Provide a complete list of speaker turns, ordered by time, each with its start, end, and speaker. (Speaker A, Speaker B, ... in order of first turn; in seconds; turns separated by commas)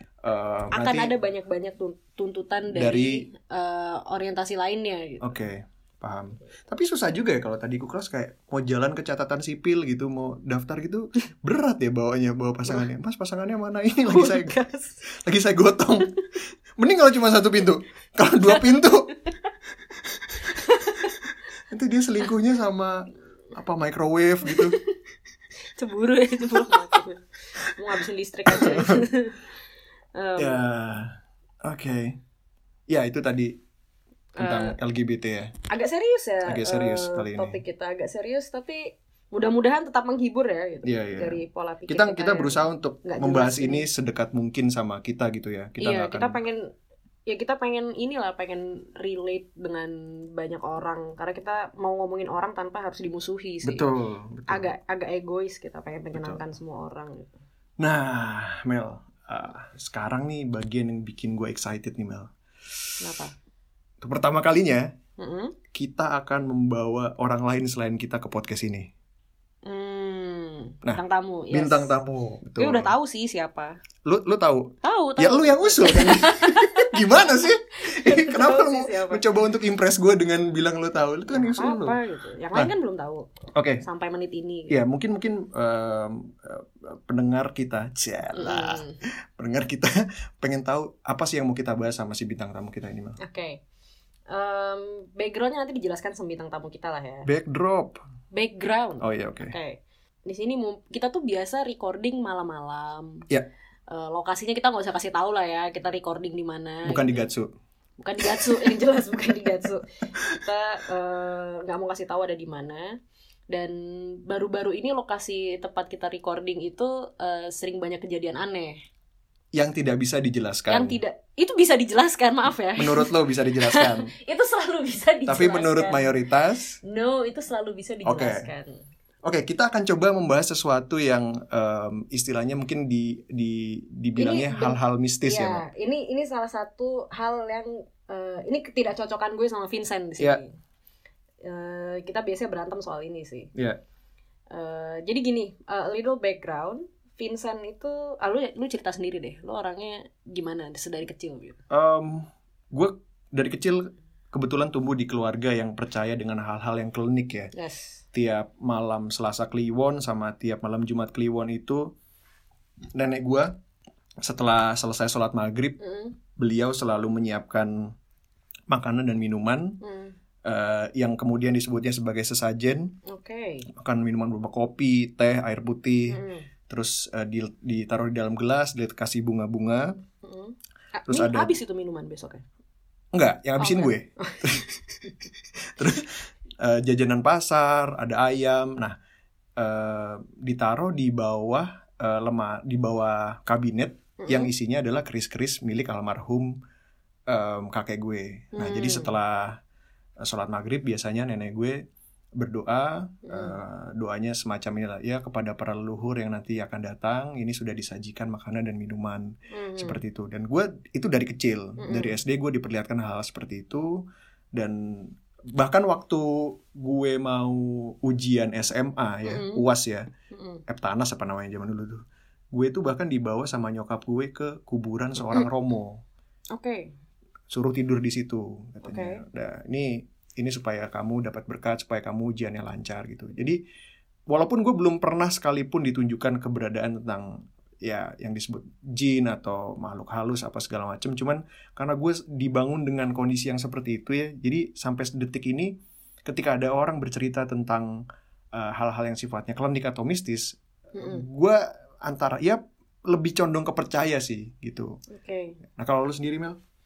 Speaker A: 0.2-1.1, Speaker B: 0.7-5.3, Speaker A: 2.7-3.2, Speaker A: 5.2-14.6, Speaker B: 14.1-15.0, Speaker A: 15.1-16.1, Speaker A: 16.8-19.1, Speaker B: 20.6-21.1, Speaker A: 21.7-24.8, Speaker B: 24.5-24.9, Speaker B: 25.7-29.4, Speaker A: 28.5-29.0, Speaker B: 30.2-30.6, Speaker A: 30.4-32.2, Speaker A: 32.9-33.6, Speaker B: 34.4-34.8, Speaker A: 34.4-35.5, Speaker B: 35.7-43.9, Speaker A: 36.5-37.6, Speaker A: 40.9-46.4, Speaker B: 45.8-46.6, Speaker B: 47.3-53.9, Speaker A: 53.6-54.7, Speaker B: 54.5-57.3, Speaker A: 56.1-56.4, Speaker A: 57.8-63.1, Speaker B: 63.0-63.3, Speaker A: 64.0-64.9, Speaker B: 65.2-65.5, Speaker A: 65.7-68.9, Speaker B: 69.7-71.9, Speaker A: 70.8-72.9, Speaker B: 72.6-73.8, Speaker A: 74.0-82.0, Speaker B: 74.8-77.1, Speaker B: 77.8-79.2, Speaker B: 81.3-83.3, Speaker A: 83.5-83.8, Speaker B: 83.8-84.8, Speaker A: 84.7-93.2, Speaker B: 88.3-89.0, Speaker B: 93.2-93.6, Speaker B: 94.3-97.3, Speaker A: 97.3-98.0, Speaker B: 98.3-103.3, Speaker A: 99.0-99.5, Speaker B: 103.9-107.2, Speaker A: 106.8-107.5, Speaker B: 108.0-113.0, Speaker A: 108.2-108.7, Speaker B: 113.5-118.8, Speaker A: 119.5-121.0, Speaker B: 120.7-126.1, Speaker A: 122.8-124.1, Speaker A: 125.3-126.8, Speaker B: 126.8-128.8, Speaker A: 128.1-128.5, Speaker A: 129.2-135.6, Speaker B: 134.2-140.6, Speaker B: 141.4-143.5, Speaker B: 144.5-151.6, Speaker A: 151.7-157.5, Speaker B: 157.5-158.0, Speaker A: 158.1-161.9, Speaker A: 162.9-163.5, Speaker A: 164.2-165.8, Speaker B: 165.8-166.2, Speaker A: 166.4-167.9, Speaker A: 168.7-169.8, Speaker B: 169.8-170.2, Speaker A: 170.4-172.9, Speaker B: 173.1-173.7, Speaker A: 173.7-180.0, Speaker B: 176.1-176.5, Speaker B: 180.2-182.4, Speaker A: 181.1-181.5, Speaker A: 183.1-185.1, Speaker B: 183.6-184.4, Speaker A: 185.8-189.0, Speaker A: 189.6-196.6, Speaker B: 194.2-194.5, Speaker A: 197.3-199.6, Speaker B: 198.6-199.1, Speaker A: 200.2-201.8, Speaker A: 202.4-220.1, Speaker B: 203.2-203.6, Speaker B: 209.5-210.0, Speaker B: 211.8-212.1, Speaker B: 219.2-219.6, Speaker B: 220.3-220.6, Speaker A: 220.7-226.0, Speaker B: 226.6-226.9, Speaker A: 227.5-233.6, Speaker B: 228.8-229.2, Speaker A: 234.3-245.7, Speaker A: 246.2-248.0, Speaker A: 248.5-255.0, Speaker B: 250.9-251.2, Speaker B: 255.1-255.6, Speaker A: 255.8-256.6